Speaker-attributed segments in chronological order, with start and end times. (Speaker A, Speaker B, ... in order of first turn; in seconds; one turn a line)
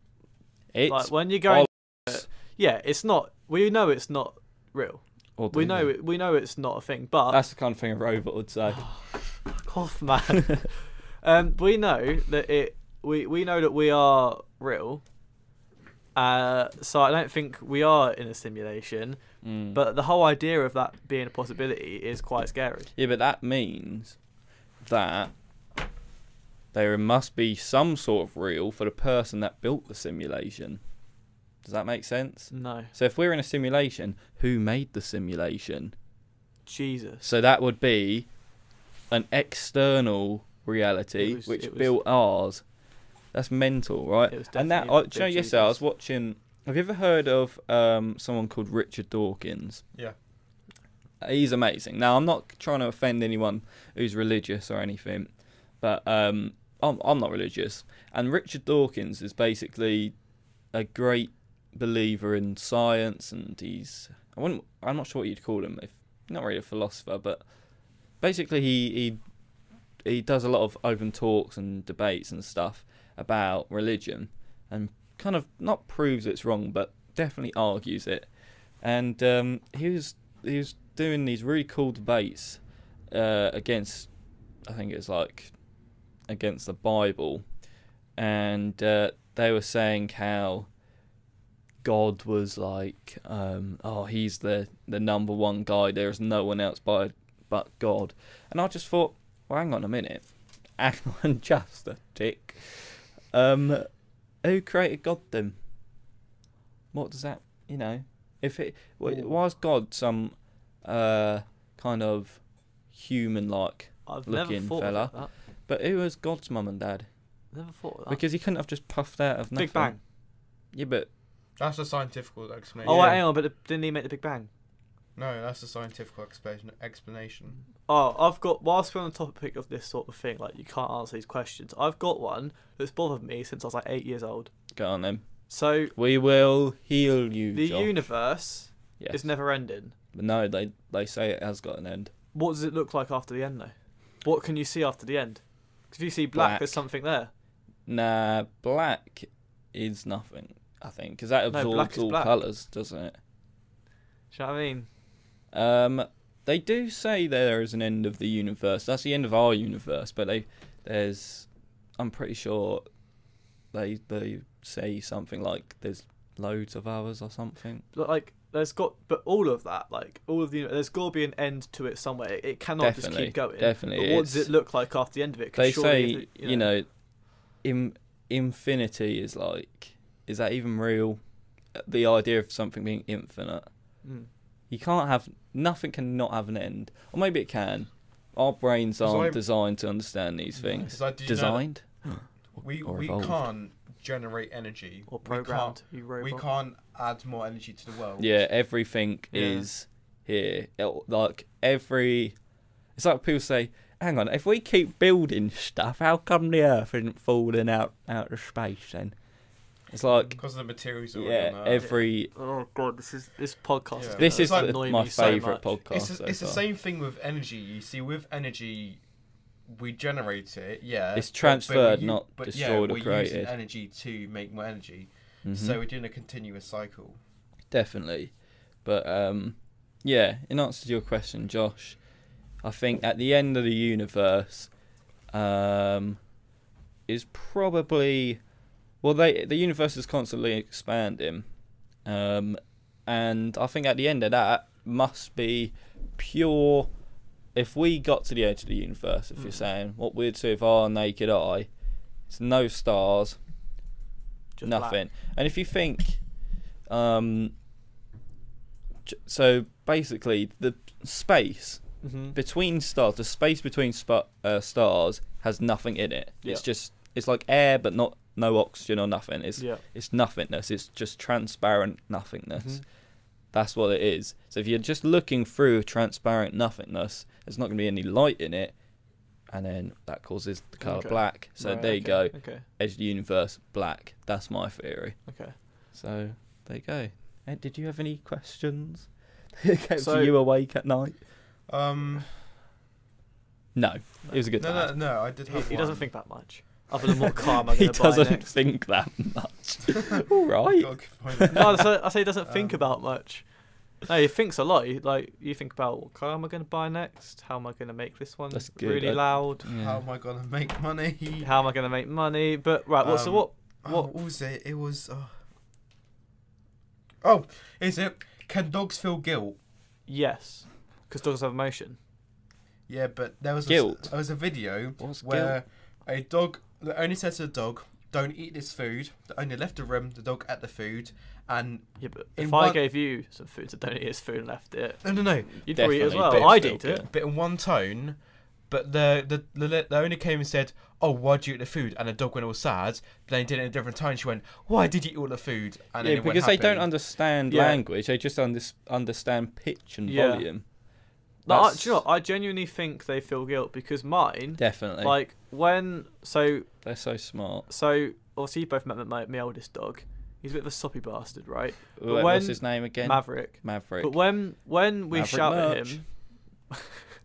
Speaker A: 0.7-2.3
Speaker B: 0.9-7.4
Speaker A: 5.4-5.9
Speaker A: 7.3-9.5
Speaker B: 8.7-15.0
Speaker B: 16.1-22.9
Speaker A: 19.4-19.8
Speaker A: 22.9-24.2
Speaker A: 24.8-25.3
Speaker A: 26.7-30.8
Speaker A: 31.6-35.9
Speaker B: 32.5-32.9
Speaker B: 36.6-37.2
Speaker A: 37.2-38.3
Speaker A: 39.1-42.7
Speaker B: 41.2-41.9
Speaker A: 43.3-49.8
Speaker B: 44.3-45.8
Speaker A: 51.2-60.2
Speaker A: 60.7-69.2
Speaker A: 70.0-85.6
Speaker A: 86.3-87.5
Speaker A: 88.2-90.7
Speaker A: 91.8-105.6
Speaker A: 106.9-117.1
Speaker B: 109.0-109.4
Speaker B: 114.0-115.3
Speaker B: 117.5-118.2
Speaker A: 118.1-121.1
Speaker B: 119.5-120.0
Speaker C: 121.6-123.2
Speaker A: 122.8-123.2
Speaker B: 122.8-124.5
Speaker C: 125.2-127.6
Speaker B: 127.8-134.5
Speaker A: 134.7-138.1
Speaker B: 135.5-135.9
Speaker B: 137.5-139.9
Speaker A: 139.0-139.3
Speaker A: 140.1-142.1
Speaker B: 142.3-147.3
Speaker A: 146.3-146.8
Speaker A: 147.8-153.2
Speaker B: 151.5-152.3
Speaker B: 154.3-154.9
Speaker A: 155.5-162.8
Speaker A: 163.7-167.8
Speaker B: 167.9-176.7
Speaker A: 172.8-174.5
Speaker A: 175.6-181.2
Speaker A: 181.7-183.9
Speaker B: 184.0-184.3
Speaker A: 184.7-193.4
Speaker C: 189.0-189.4
Speaker B: 190.5-190.9
Speaker C: 190.8-198.3
Speaker B: 195.1-196.4
Speaker A: 198.2-202.4
Speaker B: 199.3-199.7
Speaker A: 202.9-209.2
Speaker A: 209.9-210.4
Speaker B: 210.1-210.4
Speaker C: 210.4-212.0
Speaker A: 211.1-212.3
Speaker B: 211.8-215.7
Speaker C: 214.0-219.0
Speaker A: 214.2-216.6
Speaker C: 219.7-227.2
Speaker A: 221.1-223.5
Speaker A: 225.4-225.8
Speaker A: 227.7-232.1
Speaker A: 232.6-234.7
Speaker A: 235.3-236.2
Speaker A: 237.1-238.4
Speaker A: 239.0-241.5
Speaker A: 242.0-246.9
Speaker A: 247.5-251.7
Speaker A: 252.3-253.4
Speaker B: 254.6-255.0
Speaker A: 254.6-256.3
Speaker A: 256.9-257.5
Speaker A: 259.0-272.9
Speaker B: 262.0-262.4
Speaker B: 269.6-269.8
Speaker B: 272.6-272.8
Speaker A: 273.4-278.8
Speaker A: 279.4-291.2
Speaker B: 280.8-282.6
Speaker B: 285.2-285.6
Speaker B: 290.0-290.3
Speaker C: 291.7-292.4
Speaker A: 293.7-295.0
Speaker C: 294.6-296.3
Speaker B: 295.5-298.5
Speaker A: 297.2-301.8
Speaker C: 300.6-302.8
Speaker B: 301.5-309.7
Speaker A: 308.5-310.0
Speaker C: 309.6-311.5
Speaker B: 311.4-314.1
Speaker C: 313.0-315.4
Speaker C: 317.2-319.6
Speaker B: 320.1-322.0
Speaker C: 322.9-332.8
Speaker A: 323.6-324.3
Speaker A: 325.0-325.6
Speaker B: 332.0-337.1
Speaker C: 335.0-347.1
Speaker A: 335.7-337.1
Speaker A: 346.0-350.7
Speaker B: 347.5-347.8
Speaker B: 350.1-350.7
Speaker A: 351.4-352.0
Speaker B: 351.4-356.7
Speaker A: 354.6-355.1
Speaker A: 356.8-357.7
Speaker B: 357.7-366.8
Speaker A: 362.0-364.3
Speaker A: 365.1-366.1